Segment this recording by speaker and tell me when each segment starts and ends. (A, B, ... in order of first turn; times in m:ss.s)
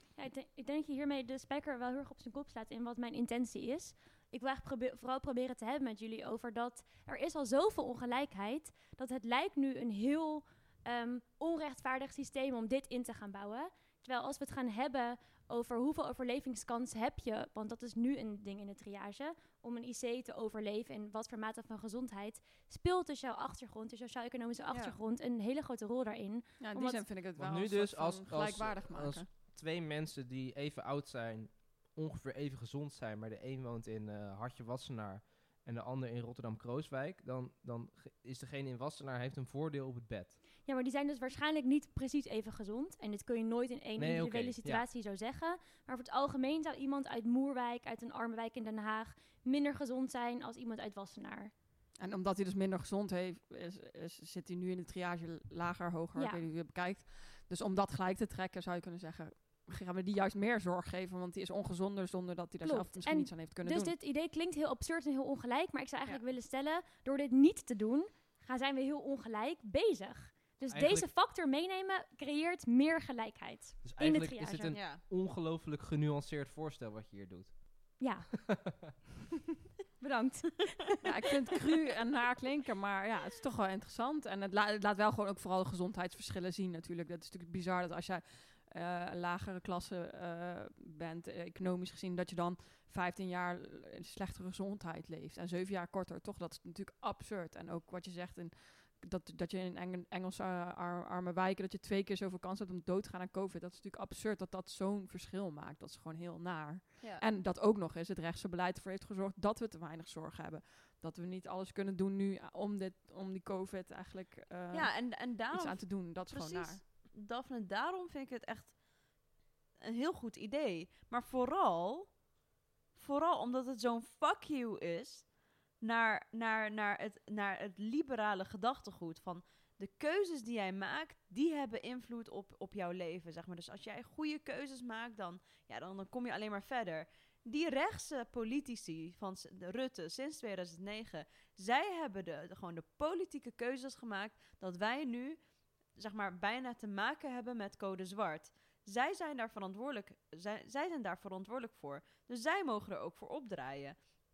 0:00.2-0:27.1 A
0:24.7-0:25.0 B
0:26.6-0:29.3 C
0:27.4-0:40.4 D
0:40.6-0:51.5 A
0:44.0-0:44.8 D
0:52.0-1:04.0 C
0:56.2-0:56.4 A
1:02.6-1:14.8 A
1:10.7-1:11.1 D
1:13.8-1:18.1 D
1:14.7-1:15.0 B
1:18.0-1:18.3 A
1:20.0-1:21.0 A
1:21.0-1:56.8 C
1:54.7-1:58.8 B
1:59.8-2:02.2 B
2:02.9-2:25.4 B
2:25.9-2:34.0 B